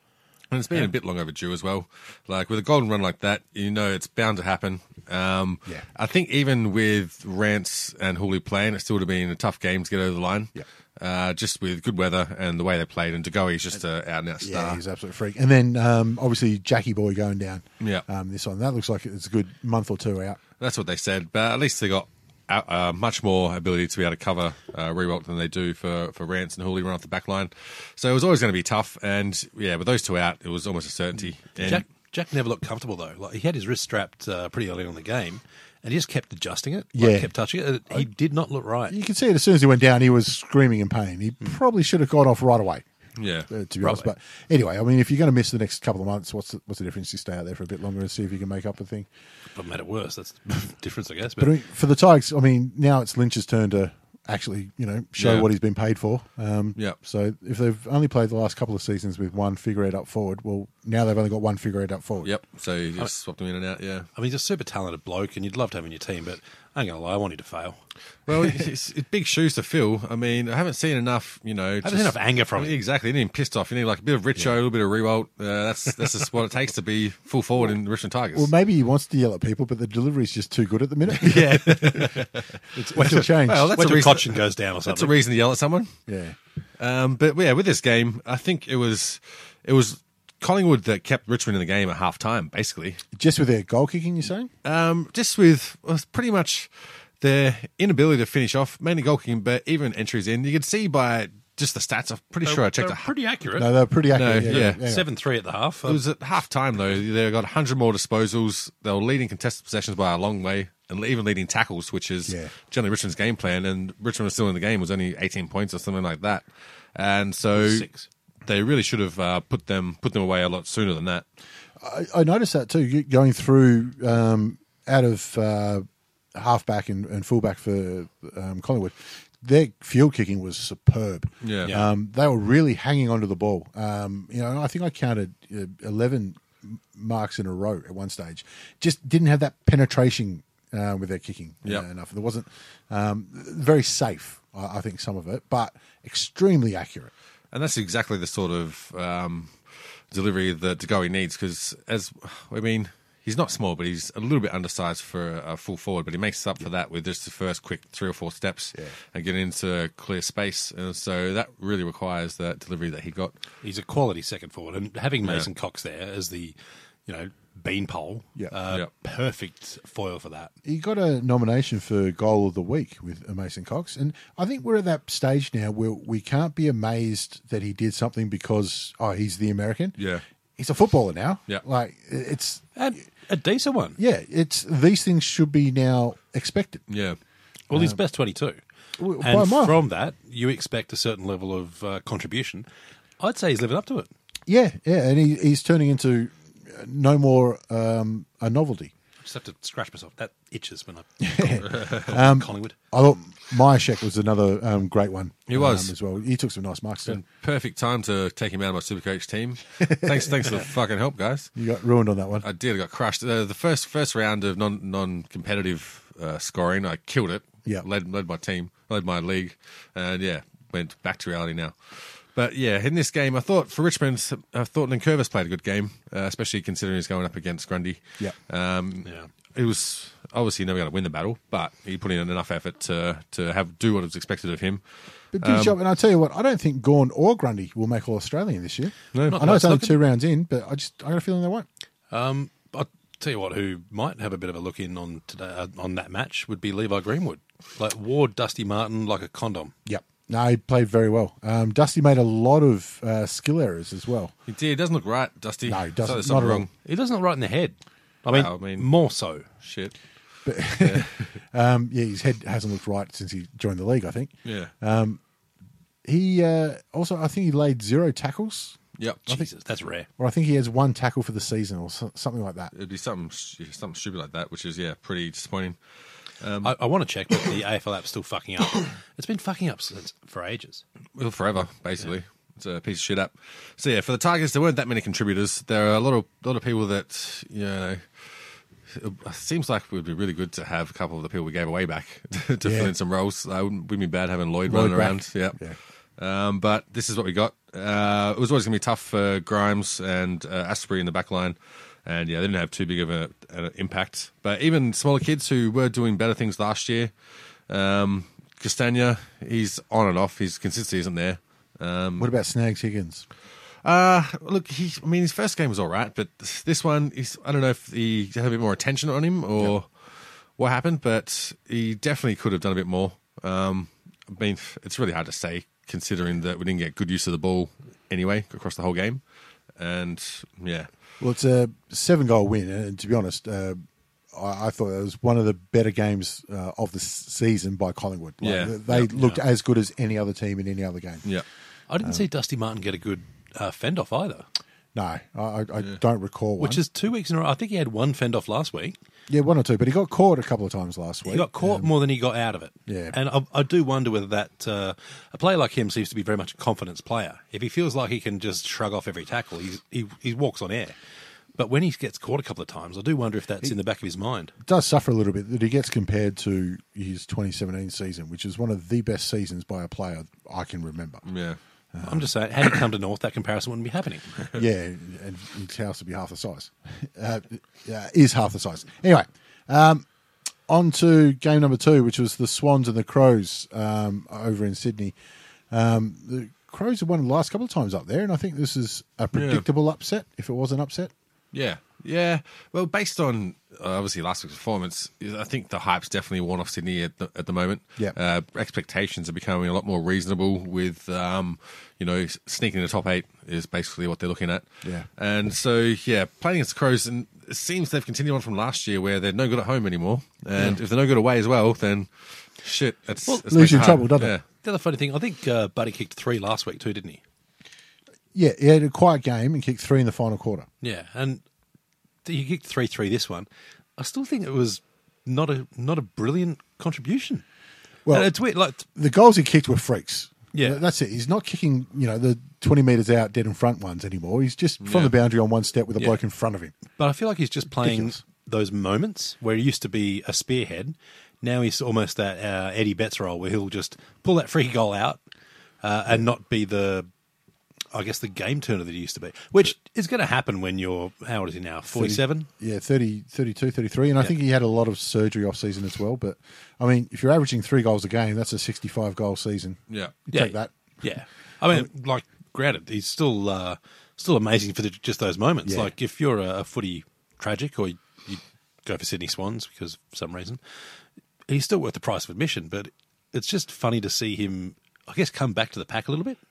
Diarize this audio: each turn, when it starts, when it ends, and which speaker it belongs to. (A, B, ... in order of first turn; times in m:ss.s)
0:00.5-0:14.8 A
0:14.4-0:20.4 B
0:20.6-0:31.8 A
0:31.6-0:39.0 C
0:36.9-0:37.3 B
0:38.9-0:42.8 B
0:43.2-0:43.5 A
0:43.5-0:49.1 B
0:49.5-0:51.5 C
0:51.4-1:02.3 B
0:55.2-0:55.5 A
1:02.2-1:04.1 A
1:04.2-1:07.8 C
1:08.3-1:18.5 A
1:11.8-1:12.7 C
1:18.3-1:22.3 B
1:21.2-1:22.4 A
1:22.7-1:25.1 C
1:22.9-1:23.8 B
1:23.0-1:25.9 A
1:26.1-1:26.4 B
1:26.8-1:33.0 A
1:33.1-1:34.5 B
1:34.6-1:43.1 A
1:42.4-1:43.7 C
1:43.6-1:45.1 B
1:44.1-1:44.8 A
1:44.4-1:46.0 C
1:45.8-1:57.9 A
1:52.2-1:52.5 B
1:57.5-1:58.1 C
1:58.4-2:01.2 A
2:01.8-2:27.1 B
2:11.4-2:11.7 A
2:27.5-2:43.4 A
2:43.6-2:50.5 C
2:50.6-3:00.0 B
3:00.0-3:00.2 A
3:00.6-3:02.6 B
3:02.8-3:04.0 C
3:04.0-3:06.9 B
3:06.9-3:07.2 A
3:07.7-3:08.6 C
3:07.7-3:08.0 B
3:09.0-3:09.8 B
3:09.2-3:12.7 C
3:13.2-3:14.1 C
3:14.5-3:18.9 B
3:19.2-3:22.7 C
3:21.2-3:27.2 B
3:21.6-3:22.1 A
3:25.5-3:25.9 A
3:27.0-3:31.5 A
3:29.8-3:30.3 B
3:31.6-3:32.5 B
3:32.4-3:55.8 A
3:49.0-3:49.3 C
3:55.3-4:01.7 B
3:59.1-3:59.5 A
3:59.2-4:00.0 C
4:02.1-4:09.7 C
4:09.8-4:14.3 B
4:14.5-4:16.7 A
4:15.6-4:16.7 B
4:16.8-4:19.4 C
4:18.3-4:18.9 A
4:19.6-4:19.9 A
4:20.4-4:25.2 B
4:20.6-4:21.4 A
4:24.4-4:24.7 A
4:26.0-4:29.5 B
4:29.0-4:29.3 A
4:29.3-4:30.1 C
4:30.2-4:32.7 B
4:32.7-4:35.8 A
4:36.4-4:36.7 A
4:36.6-4:40.8 C
4:41.2-4:55.6 A
4:52.6-4:52.9 B
4:54.6-4:55.8 B
4:56.2-5:07.1 A
5:07.7-5:12.3 A
5:12.2-5:13.2 B
5:13.8-5:29.2 A
5:29.8-5:30.9 A
5:31.2-5:41.3 B
5:38.4-5:39.1 A
5:41.9-5:44.4 C
5:44.9-5:46.8 B
5:46.6-5:49.0 C
5:49.3-5:51.9 B
5:51.2-6:00.9 C
5:52.9-5:53.2 B
6:01.6-6:04.5 C
6:04.6-6:11.2 B
6:11.2-6:11.6 A
6:11.9-6:12.3 B
6:12.0-6:14.5 C
6:14.5-6:20.0 B
6:20.7-6:25.1 B
6:25.7-6:31.1 B
6:29.3-6:29.6 A
6:31.5-6:54.4 A
6:53.3-6:54.1 C
6:53.5-6:54.4 B
6:54.6-6:57.2 C
6:58.3-7:00.7 B
7:00.8-7:01.4 C
7:02.2-7:07.4 C
7:08.0-7:16.7 B
7:08.1-7:08.8 C
7:10.5-7:10.8 C
7:14.8-7:15.1 A
7:17.0-7:25.2 C
7:17.8-7:18.2 B
7:25.8-7:27.1 C
7:27.9-7:32.5 C
7:31.9-7:40.7 B
7:39.9-7:40.1 A
7:40.3-7:50.6 C
7:45.6-7:45.9 B
7:51.5-7:56.4 C